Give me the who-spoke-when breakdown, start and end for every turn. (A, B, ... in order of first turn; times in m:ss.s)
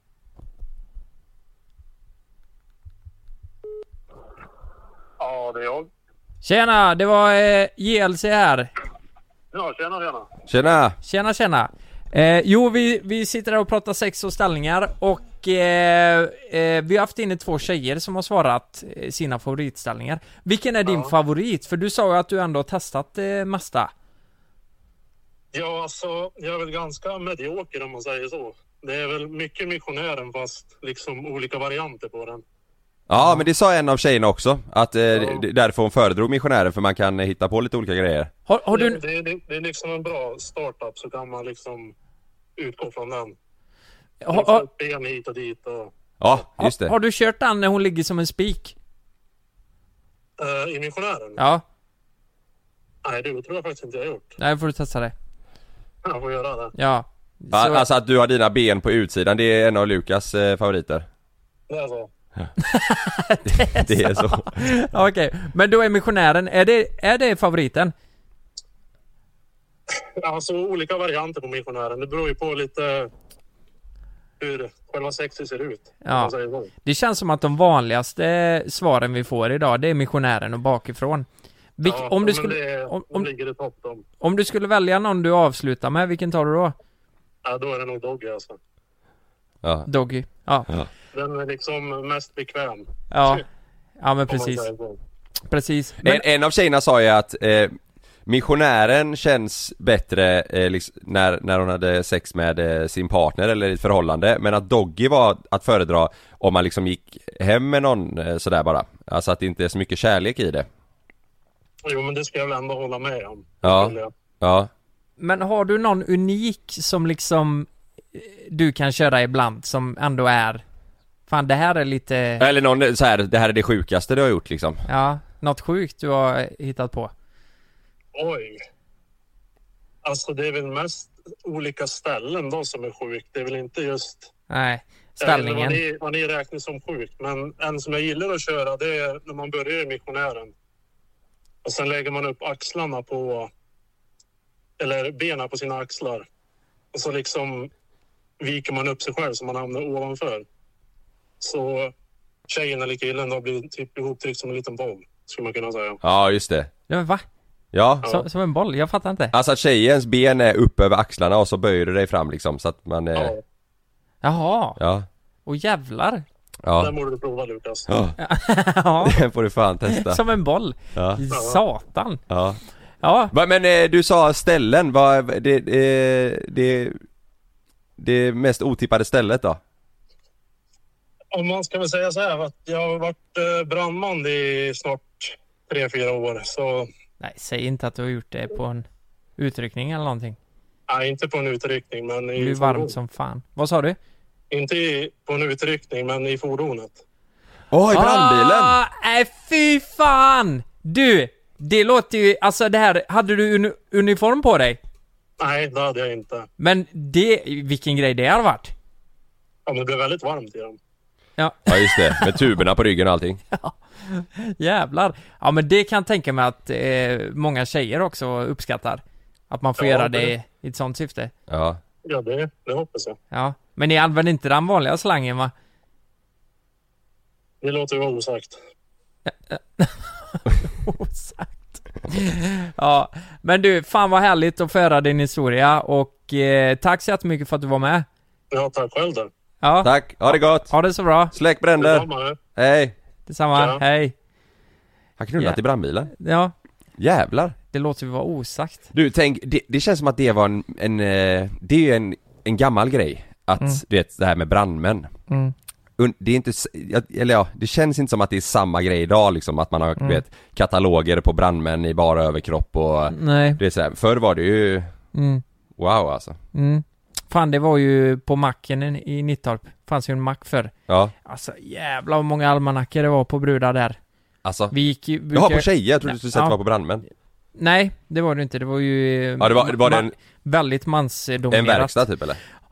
0:05.2-0:05.9 A
0:06.4-0:08.7 B
0:09.5-0:10.3 A
0:10.5-0:11.0 C
0:11.0-0:23.9 B
0:20.8-0:21.1 A
0:25.5-0:32.4 A
0:33.1-0:38.3 C
0:33.2-0:33.4 B
0:35.1-0:35.4 A
0:38.5-0:39.0 B
0:38.7-0:41.9 A
0:42.6-0:43.3 A
0:44.2-0:44.6 B
0:44.3-0:45.9 A
0:46.2-0:46.9 C
0:46.6-0:48.7 B
0:50.4-0:51.4 A
0:51.4-0:51.6 B
0:53.0-0:54.3 A
0:54.4-0:55.1 B
0:56.0-0:56.7 A
0:56.7-0:57.8 B
0:57.5-1:01.0 C
1:01.7-1:02.1 A
1:02.6-1:07.9 B
1:03.4-1:04.6 C
1:10.0-1:13.1 A
1:14.4-1:16.7 A
1:16.0-1:23.3 B
1:21.8-1:24.0 A
1:24.2-1:26.7 B
1:27.4-1:28.6 A
1:29.8-1:30.7 B
1:31.1-1:33.4 A
1:33.1-1:33.4 B
1:34.0-1:34.7 B
1:34.3-1:35.0 A
1:35.5-1:36.2 B
1:36.0-1:50.6 C
1:51.8-1:54.1 A
1:53.6-1:54.7 C
1:55.2-2:00.6 B
2:01.3-2:02.4 B
2:02.4-2:04.8 C
2:04.8-2:07.1 B
2:08.1-2:08.6 A
2:10.0-2:14.3 A
2:14.5-2:15.8 B
2:15.2-2:20.5 A
2:21.6-2:23.5 A
2:24.8-2:26.2 A
2:26.9-2:27.7 A
2:28.4-2:30.4 A
2:31.4-2:31.9 A
2:32.5-2:36.0 A
2:36.0-2:36.7 C
2:36.9-2:37.2 B
2:37.7-2:38.0 C
2:38.0-2:39.3 B
2:39.3-2:43.3 C
2:43.2-2:43.4 A
2:44.2-2:44.8 B
2:44.8-2:45.0 C
2:45.4-2:46.2 B
2:46.6-2:46.9 C
2:46.8-2:47.9 A
2:47.9-2:48.2 C
2:48.2-2:49.2 B
2:49.0-2:50.2 C
2:49.9-2:52.2 B
2:50.9-2:51.2 C
2:51.3-2:51.6 A
2:52.3-2:52.6 C
2:53.0-2:53.3 B
2:53.3-2:57.0 C
2:58.0-2:59.6 C
3:01.3-3:06.9 A
3:07.2-3:08.8 B
3:09.4-3:10.4 B
3:10.9-3:12.9 A
3:12.4-3:14.0 B
3:14.5-3:17.0 A
3:17.7-3:18.8 C
3:17.9-3:24.8 B
3:25.4-3:26.5 A
3:26.6-3:28.7 B
3:29.6-3:30.8 A
3:31.4-3:32.5 B
3:31.7-3:33.4 C
3:33.5-3:41.3 B
3:39.8-3:40.3 A
3:41.5-3:41.8 C
3:42.0-3:43.2 A
3:43.3-3:45.5 B
3:47.6-3:48.6 A
3:49.3-3:58.1 B
3:58.5-3:59.3 A
3:59.6-4:01.3 B
3:59.8-4:00.7 C
4:01.3-4:02.9 C
4:01.8-4:02.4 A
4:03.3-4:04.1 B
4:03.5-4:03.8 A
4:05.2-4:06.1 C
4:06.1-4:06.5 B
4:07.0-4:07.5 C
4:07.7-4:08.8 B
4:08.9-4:15.1 C
4:15.3-4:15.5 B
4:16.0-4:24.9 C
4:20.0-4:20.2 B
4:23.1-4:23.6 B
4:25.1-4:25.4 B
4:25.8-4:26.4 C
4:26.5-4:30.7 B
4:30.9-4:31.1 C
4:31.2-4:34.0 B
4:34.4-4:34.7 C
4:34.7-4:36.6 B
4:35.3-4:37.0 C
4:37.5-4:42.0 B
4:39.4-4:40.1 C
4:41.5-4:42.4 C